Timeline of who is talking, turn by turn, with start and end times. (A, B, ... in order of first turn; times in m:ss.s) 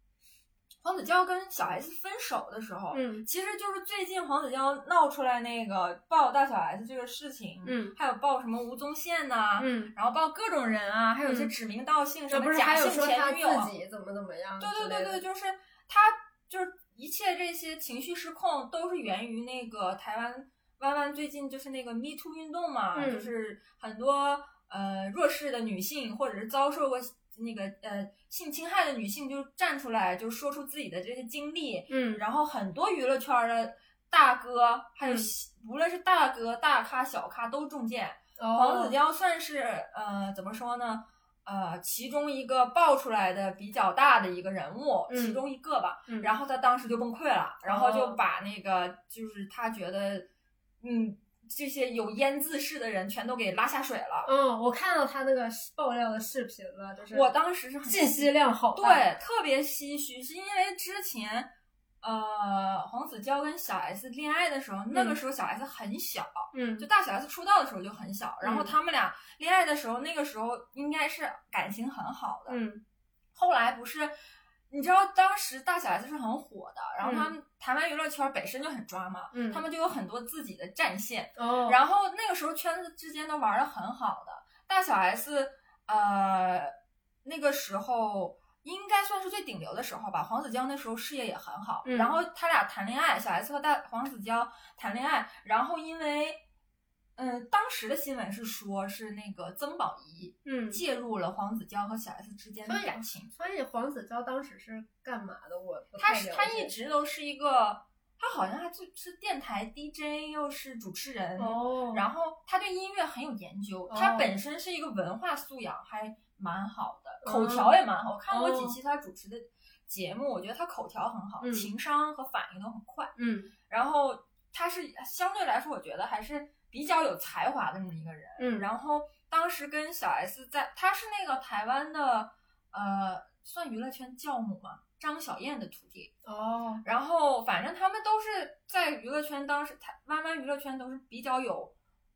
0:00.8-0:13.7 A
0:02.9-0:03.2 B
0:07.6-0:07.9 B
0:09.6-0:09.9 B
0:11.2-0:11.5 B
0:12.3-0:15.2 B
0:14.6-0:50.3 A
0:22.9-0:23.3 B
0:31.9-0:32.2 B
0:38.4-0:38.9 B
0:45.1-0:45.4 B
0:46.1-0:46.3 B
0:47.6-0:48.2 B
0:50.8-0:54.3 A
0:54.2-0:57.2 B
0:57.1-1:01.5 A
0:57.8-0:59.1 B
1:02.0-1:12.6 A
1:04.9-1:05.2 B
1:06.5-1:06.8 B
1:08.4-1:08.7 B
1:12.5-1:12.8 B
1:13.3-1:14.1 A
1:14.7-1:36.4 A
1:17.0-1:17.3 B
1:19.3-1:19.6 B
1:21.4-1:21.8 B
1:31.8-1:32.2 B
1:37.2-1:43.3 A
1:40.4-1:40.8 B
1:42.6-1:46.7 B
1:46.0-2:03.1 A
1:51.4-1:52.0 B
1:53.9-1:54.3 B
1:57.2-1:57.8 B
1:58.3-1:58.8 B
2:01.4-2:01.7 B
2:03.2-2:03.5 B
2:03.7-2:16.1 A
2:08.4-2:08.6 B
2:16.2-2:16.8 B
2:16.8-2:21.7 A